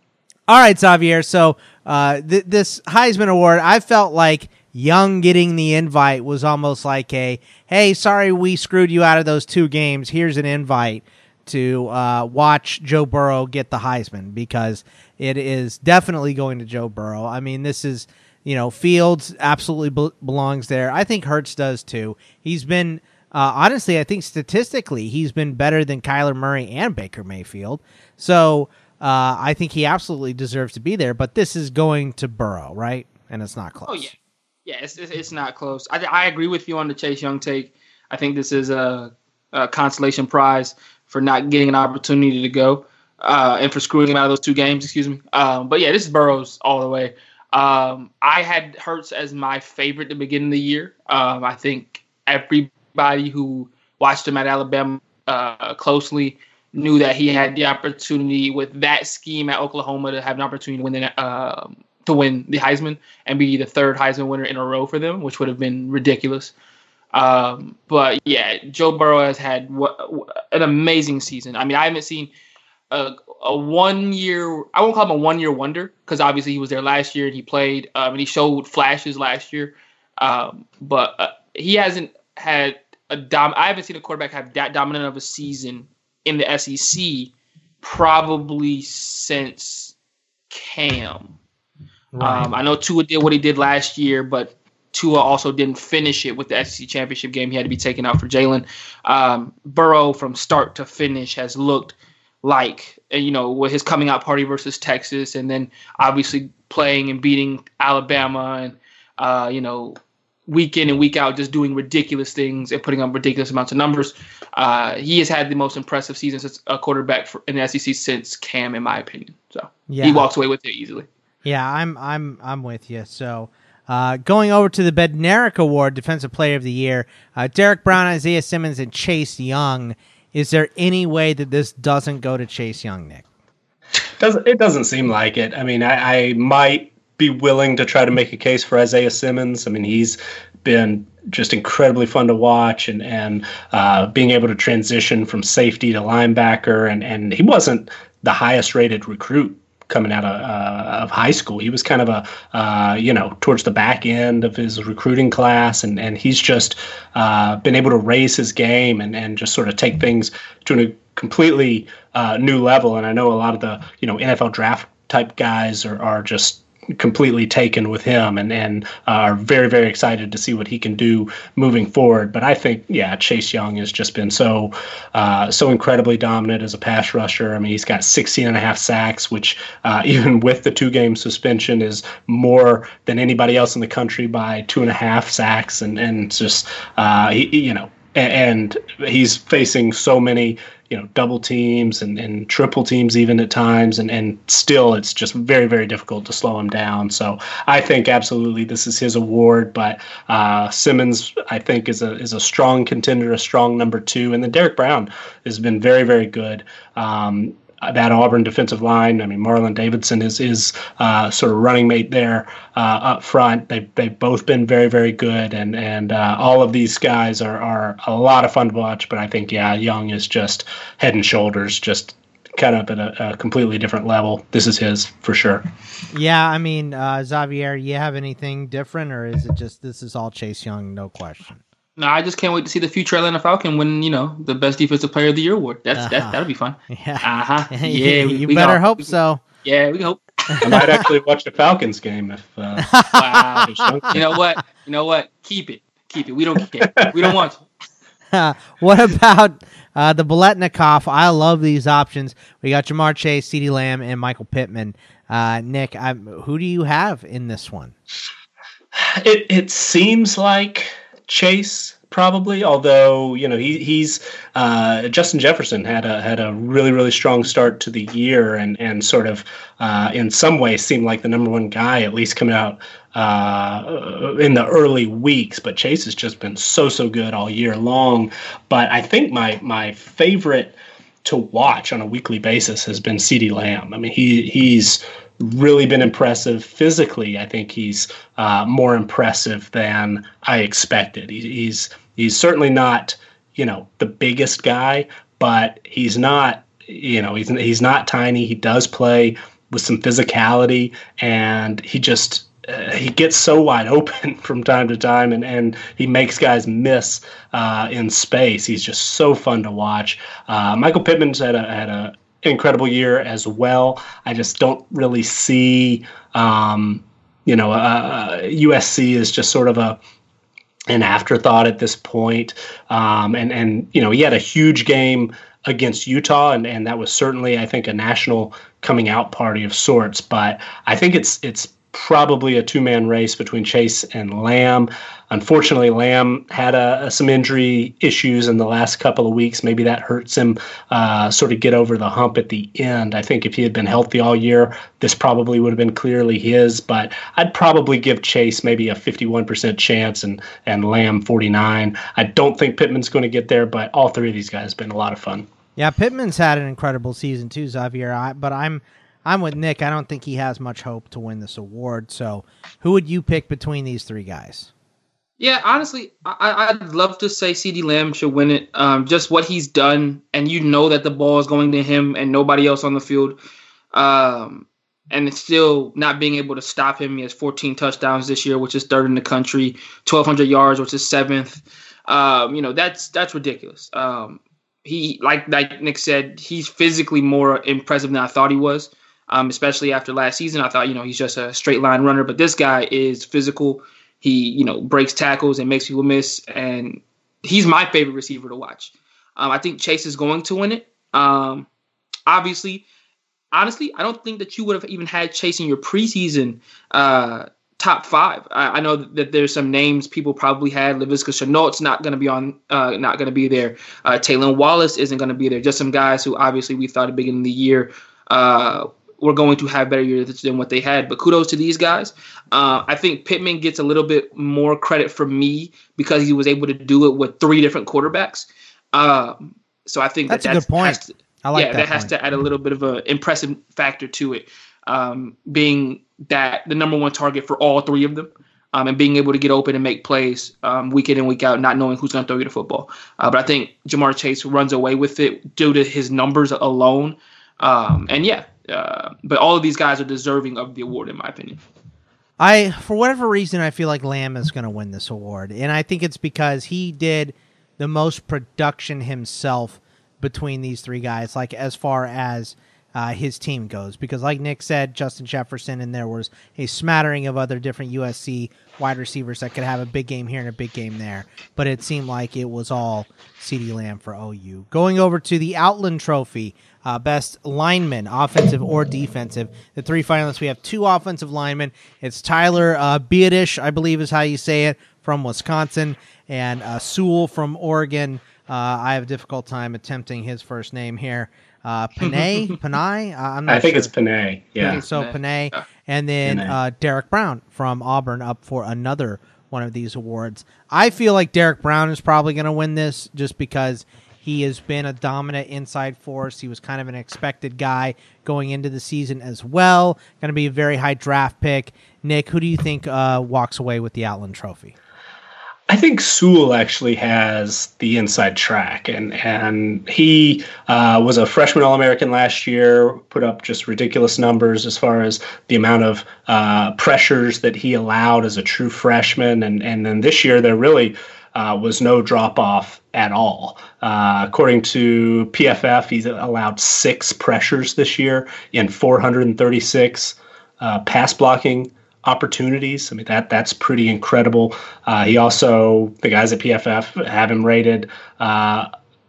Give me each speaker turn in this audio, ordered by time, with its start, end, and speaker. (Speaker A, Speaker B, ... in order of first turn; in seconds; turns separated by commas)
Speaker A: 0.5-34.1, Speaker B: 33.9-34.1, Speaker B: 34.6-66.5, Speaker B: 67.1-72.3, Speaker B: 72.9-89.9, Speaker B: 90.5-91.4, Speaker A: 92.1-92.5, Speaker B: 92.2-121.1, Speaker A: 119.9-120.3, Speaker A: 121.4-133.2, Speaker C: 134.2-225.6, Speaker A: 226.1-231.6, Speaker B: 232.0-239.1, Speaker A: 236.0-236.4, Speaker A: 236.9-239.4, Speaker B: 239.6-240.8, Speaker A: 240.5-241.0, Speaker C: 240.6-243.0, Speaker A: 242.8-244.0, Speaker B: 243.1-247.6, Speaker C: 243.6-244.3, Speaker C: 247.0-247.3, Speaker A: 248.3-257.9, Speaker C: 258.9-320.0, Speaker C: 320.9-355.5, Speaker A: 355.8-364.7, Speaker B: 365.4-373.4, Speaker B: 373.9-401.7, Speaker B: 402.3-402.9, Speaker B: 403.5-451.6, Speaker A: 430.3-432.1, Speaker A: 452.4-493.9, Speaker B: 492.0-492.5, Speaker C: 493.5-494.8, Speaker B: 494.6-495.6, Speaker A: 494.8-514.8, Speaker C: 496.2-496.6, Speaker C: 515.7-548.7